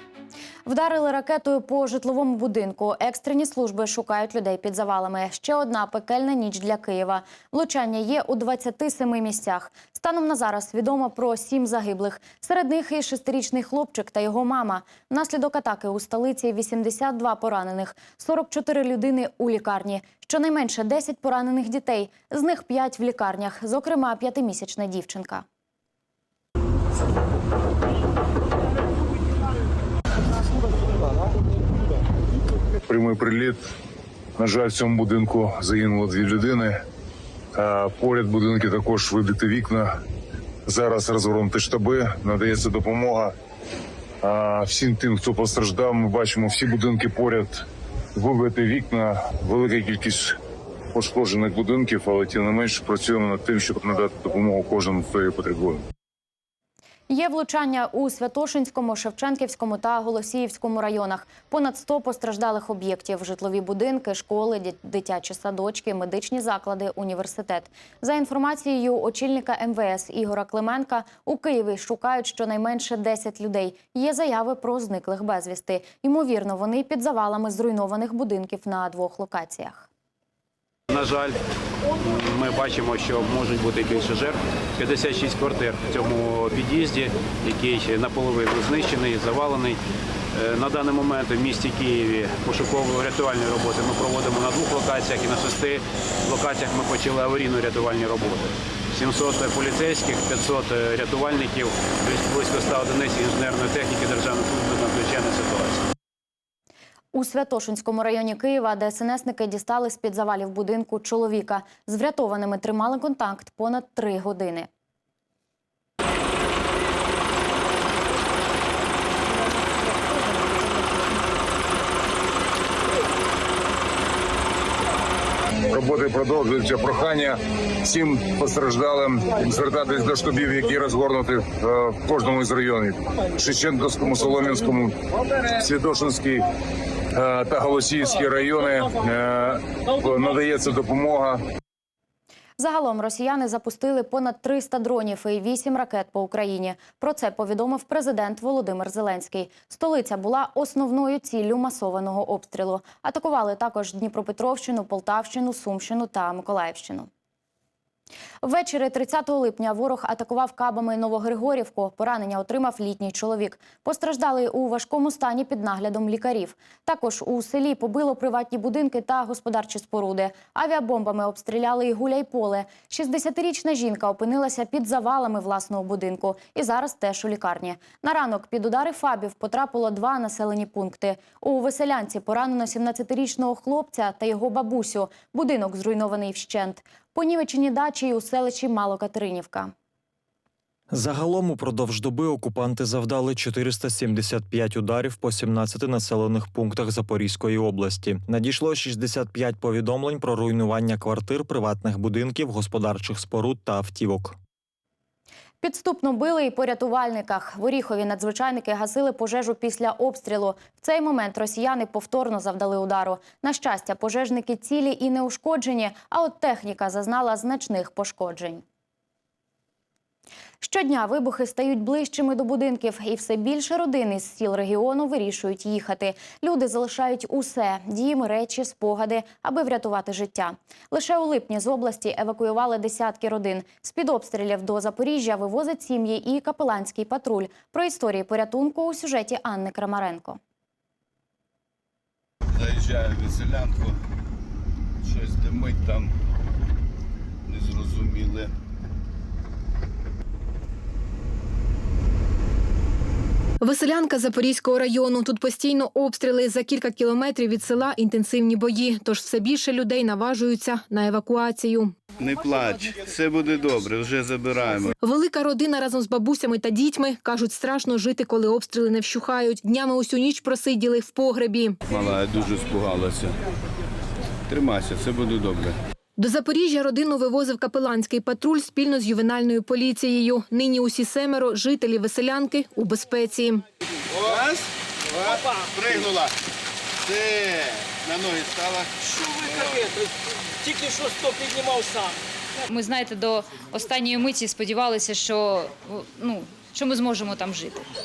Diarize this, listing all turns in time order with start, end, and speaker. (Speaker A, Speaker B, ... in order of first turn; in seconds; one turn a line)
Speaker A: 0.7-25.4
Speaker B: 32.9-33.6
Speaker B: 34.4-36.8
Speaker B: 37.5-39.9
Speaker B: 40.7-43.3
Speaker B: 44.2-47.6
Speaker B: 48.2-50.4
Speaker B: 50.9-55.9
Speaker A: 57.1-79.9
Speaker C: 80.9-81.4
Speaker C: 82.0-89.8
Speaker C: 90.4-105.8
Speaker A: 107.1-114.7
Speaker B: 125.7-135.0
Speaker B: 135.5-136.4
Speaker B: 137.2-141.4
Speaker A: 142.6-157.1
Speaker A: 158.4-189.7
Speaker D: 190.9-204.4
Speaker A: 205.6-218.6
Speaker A: 220.6-240.4
Speaker E: 242.5-244.0
Speaker E: 245.0-246.1
Speaker E: 247.5-248.5
Speaker F: 253.6-261.9
Speaker E: 262.2-264.9
Speaker F: 265.0-271.8
Speaker E: 271.9-273.4
Speaker E: 274.5-275.8
Speaker F: 276.2-283.6
Speaker E: 284.1-286.3
Speaker E: 287.1-289.9
Speaker G: 292.7-297.9